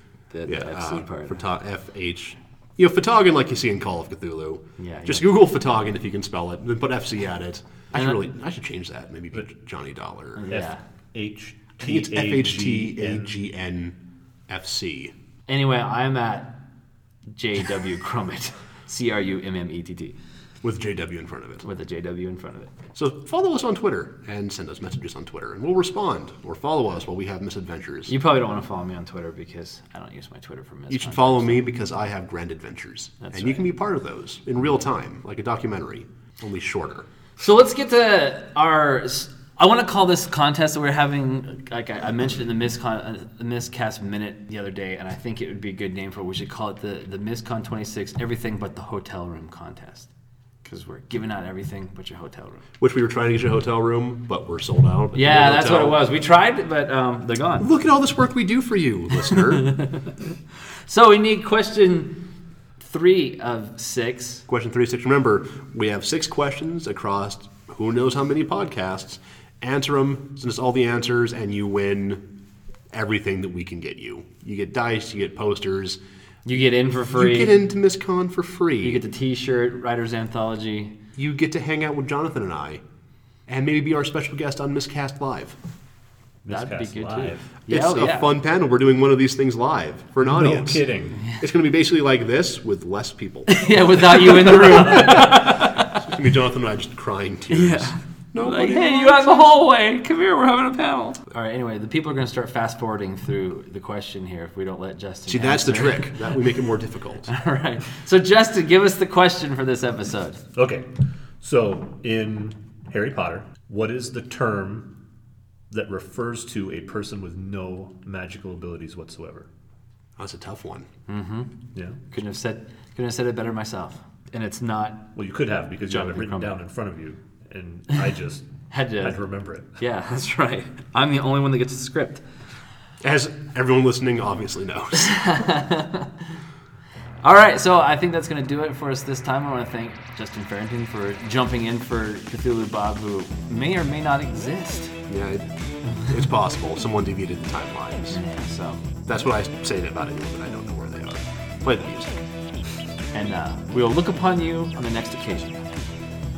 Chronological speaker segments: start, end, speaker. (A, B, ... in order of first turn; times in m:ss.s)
0:00.3-0:01.4 A
0:00.5-0:10.4 B
0:04.8-0:05.4 A
0:07.9-0:08.2 A
0:10.4-0:10.8 A
0:10.5-0:13.3 C
0:11.8-0:14.0 B
0:14.5-0:15.1 B
0:15.5-0:16.6 A
0:17.3-0:20.1 A
0:20.6-0:21.6 B
0:21.6-0:22.7 A
0:22.9-0:28.1 B
0:28.1-0:31.6 A
0:30.9-0:37.1 B
0:33.2-0:33.6 A
0:37.4-0:50.1 A
0:50.6-0:52.6 A
0:52.8-0:56.0 B
0:55.1-0:57.7 A
0:57.6-0:59.7 B
0:59.5-1:00.1 A
1:00.9-1:02.2 A
1:02.8-1:04.4 A
1:04.5-1:12.2 B
1:12.9-1:16.0 B
1:16.4-1:17.6 A
1:17.1-1:19.0 B
1:18.8-1:20.9 A
1:21.2-1:22.8 B
1:23.5-1:25.6 B
1:26.4-1:27.4 C
1:26.5-1:28.3 A
1:27.7-1:39.5 B
1:30.2-1:31.2 C
1:33.5-1:35.9 A
1:37.5-1:46.4 A
1:45.3-1:47.3 B
1:47.2-1:50.4 A
1:50.5-1:50.9 C
1:51.4-1:54.9 C
1:55.7-1:59.5 C
2:00.2-2:00.9 B
2:01.1-2:01.5 A
2:01.7-2:02.0 C
2:02.1-2:05.0 A
2:05.1-2:08.5 C
2:05.9-2:06.6 A
2:08.7-2:09.2 A
2:09.0-2:09.7 C
2:09.8-2:12.2 A
2:13.0-2:15.2 B
2:14.9-2:16.2 A
2:17.2-2:25.0 A
2:25.1-2:25.5 B
2:26.0-2:28.2 B
2:28.1-2:28.8 A
2:29.1-2:32.2 B
2:33.1-2:35.6 A